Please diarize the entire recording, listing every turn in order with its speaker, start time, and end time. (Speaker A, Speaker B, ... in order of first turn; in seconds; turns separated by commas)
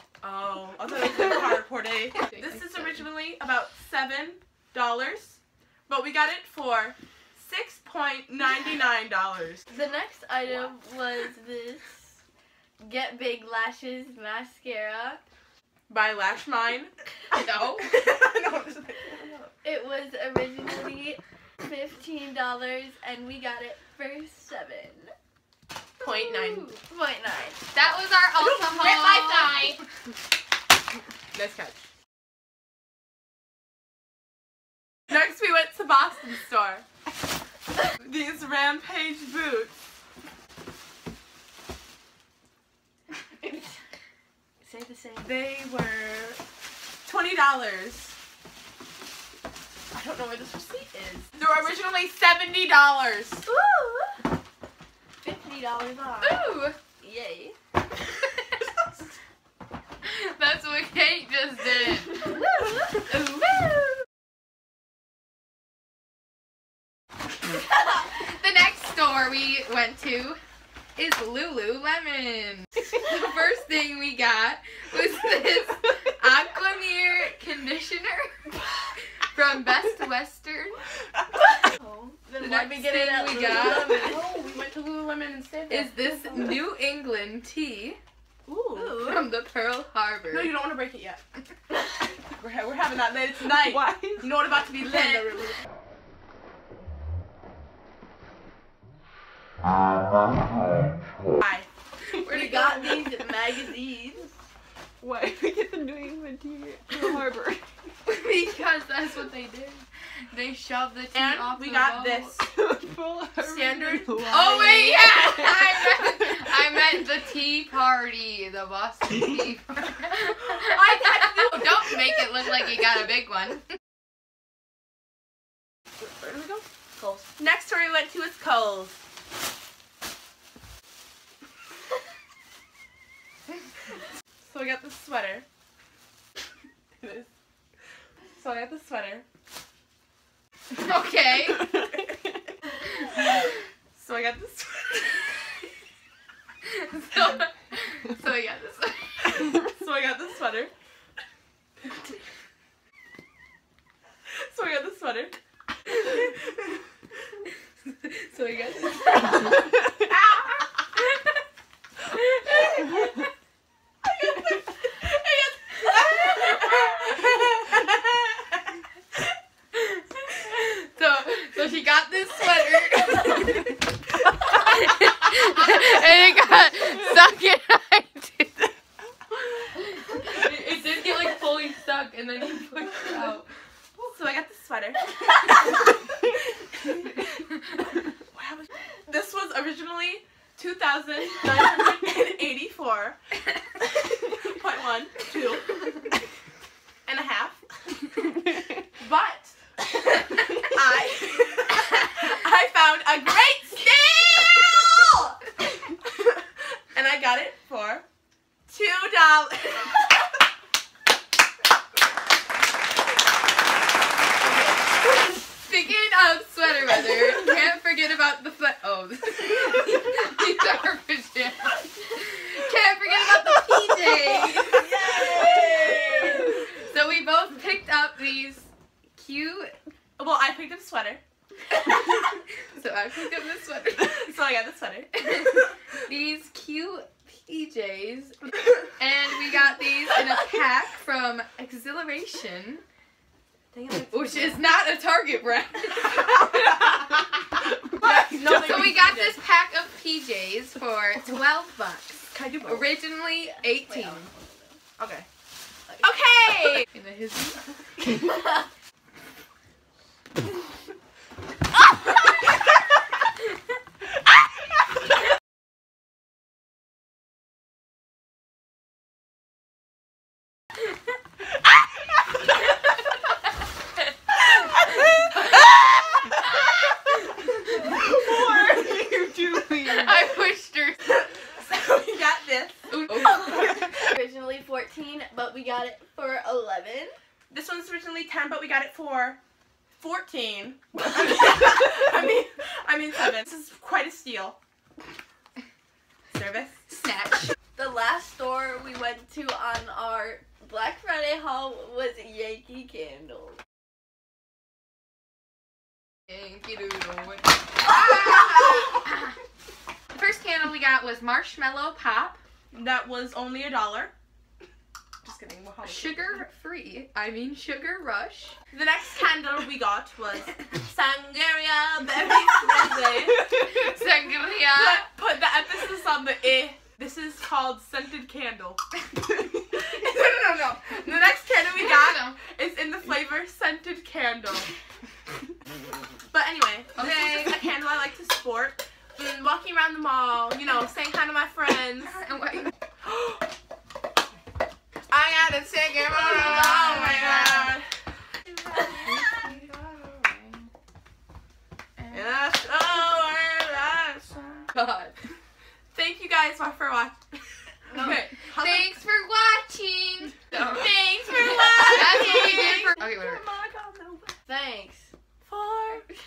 Speaker A: 0.2-9.6, Speaker B: 2.3-2.9, Speaker C: 9.7-12.2, Speaker C: 12.8-15.2, Speaker A: 15.9-16.9, Speaker B: 17.3-18.0, Speaker A: 17.9-19.5, Speaker C: 19.6-25.1, Speaker A: 26.0-26.7, Speaker B: 26.0-26.8, Speaker C: 26.8-27.9, Speaker B: 27.7-29.6, Speaker A: 28.4-29.8, Speaker A: 31.3-31.9, Speaker A: 35.1-36.9, Speaker A: 38.0-39.7, Speaker C: 43.4-43.8, Speaker C: 44.6-45.3, Speaker A: 45.2-46.4, Speaker A: 47.0-48.1, Speaker A: 49.9-53.5, Speaker C: 53.5-54.2, Speaker C: 55.2-56.4, Speaker B: 56.2-56.8, Speaker C: 57.0-57.5, Speaker B: 60.0-62.5, Speaker B: 63.1-63.7, Speaker B: 68.0-70.4, Speaker B: 71.0-80.8, Speaker C: 81.3-84.3, Speaker B: 82.4-84.2, Speaker A: 83.7-86.0, Speaker B: 85.7-88.0, Speaker A: 88.5-89.3, Speaker B: 89.0-90.5, Speaker A: 90.3-91.2, Speaker A: 92.4-95.6, Speaker D: 93.5-95.0, Speaker A: 101.4-101.7, Speaker B: 102.2-103.1, Speaker C: 102.3-104.3, Speaker D: 105.0-107.6, Speaker B: 108.1-112.4, Speaker A: 111.1-112.5, Speaker D: 112.4-116.4, Speaker A: 113.4-114.6, Speaker B: 114.3-123.6, Speaker A: 120.6-121.7, Speaker A: 126.0-129.0, Speaker A: 134.4-135.4, Speaker A: 137.0-137.3, Speaker A: 138.4-139.2, Speaker B: 140.8-141.9, Speaker B: 143.1-143.4, Speaker A: 143.9-145.3, Speaker B: 146.7-149.5, Speaker A: 149.6-150.7, Speaker A: 154.3-155.4, Speaker B: 157.9-159.8, Speaker B: 161.0-161.3, Speaker B: 162.1-163.1, Speaker A: 164.0-167.1, Speaker B: 166.7-167.2, Speaker B: 169.7-173.8, Speaker B: 174.4-178.7, Speaker B: 179.5-183.5, Speaker A: 184.0-185.7, Speaker A: 188.3-193.2, Speaker A: 194.3-196.0, Speaker A: 197.1-197.7, Speaker A: 199.0-199.5, Speaker A: 200.6-205.3, Speaker A: 206.1-208.0, Speaker A: 208.7-210.1, Speaker B: 215.3-229.8, Speaker C: 225.0-226.3, Speaker A: 225.0-226.0, Speaker A: 230.2-231.2, Speaker B: 231.7-232.2, Speaker B: 232.7-234.3, Speaker A: 234.0-235.2, Speaker B: 235.2-242.8, Speaker A: 243.7-244.6, Speaker B: 244.1-247.2, Speaker A: 248.0-249.4, Speaker B: 248.0-254.3, Speaker A: 252.3-252.9, Speaker C: 253.4-254.8, Speaker A: 255.0-255.3, Speaker A: 256.0-256.9, Speaker B: 256.9-258.2, Speaker D: 278.1-280.1, Speaker A: 278.2-278.8, Speaker B: 279.9-281.1, Speaker A: 281.6-283.8, Speaker B: 282.9-283.9, Speaker C: 284.0-287.2, Speaker A: 287.5-289.4, Speaker A: 290.0-294.6, Speaker A: 296.3-296.9, Speaker B: 296.9-297.5, Speaker C: 297.8-303.6, Speaker B: 306.3-309.4, Speaker A: 307.9-308.8, Speaker B: 310.1-312.4, Speaker A: 312.7-314.1, Speaker A: 315.2-316.3, Speaker B: 315.8-318.6, Speaker A: 318.7-323.5, Speaker B: 323.4-325.1, Speaker A: 324.7-334.7, Speaker B: 331.7-332.4, Speaker A: 336.3-342.2, Speaker B: 337.0-337.6, Speaker B: 342.0-342.7, Speaker A: 343.1-343.4, Speaker A: 345.1-347.9, Speaker B: 348.7-350.7, Speaker A: 349.1-349.8, Speaker A: 352.1-354.6, Speaker B: 354.7-355.1, Speaker A: 355.9-358.9, Speaker B: 358.5-360.9, Speaker A: 360.5-364.3, Speaker B: 361.8-363.4, Speaker C: 364.5-365.1, Speaker A: 365.5-366.0